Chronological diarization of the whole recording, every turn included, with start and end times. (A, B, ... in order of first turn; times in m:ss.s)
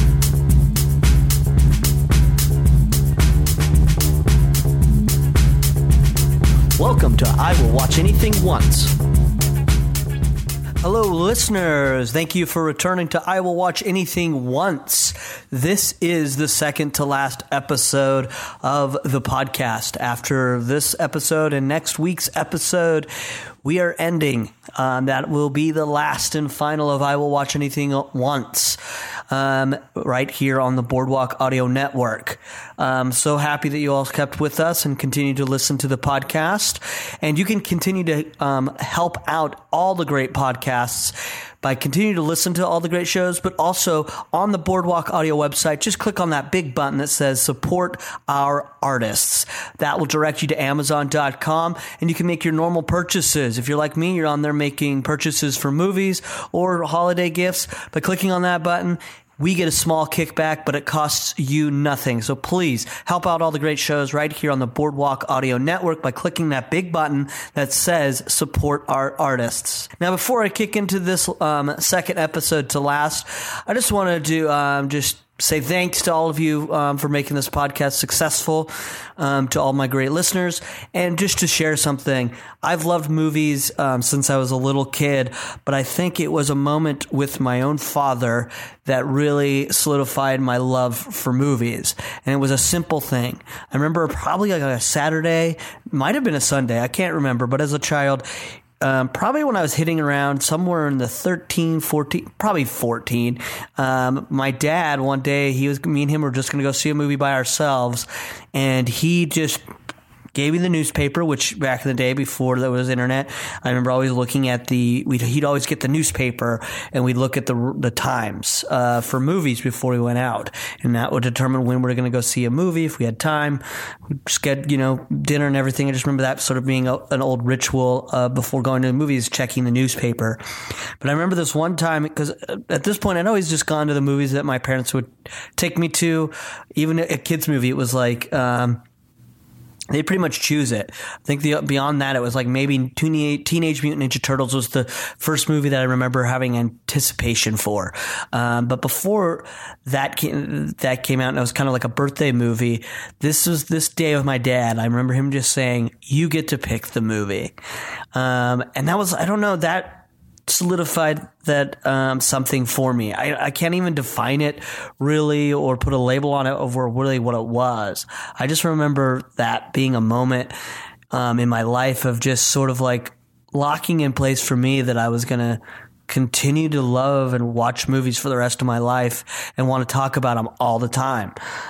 0:06.8-0:08.9 A
0:10.8-0:23.1 A
0:23.6-0:28.8 A
0:29.3-1:38.3 A
1:38.8-1:49.6 A
1:50.4-2:10.4 A
2:11.0-2:18.8 A
2:19.9-2:37.5 A
2:38.1-2:50.5 A
2:51.1-3:01.4 A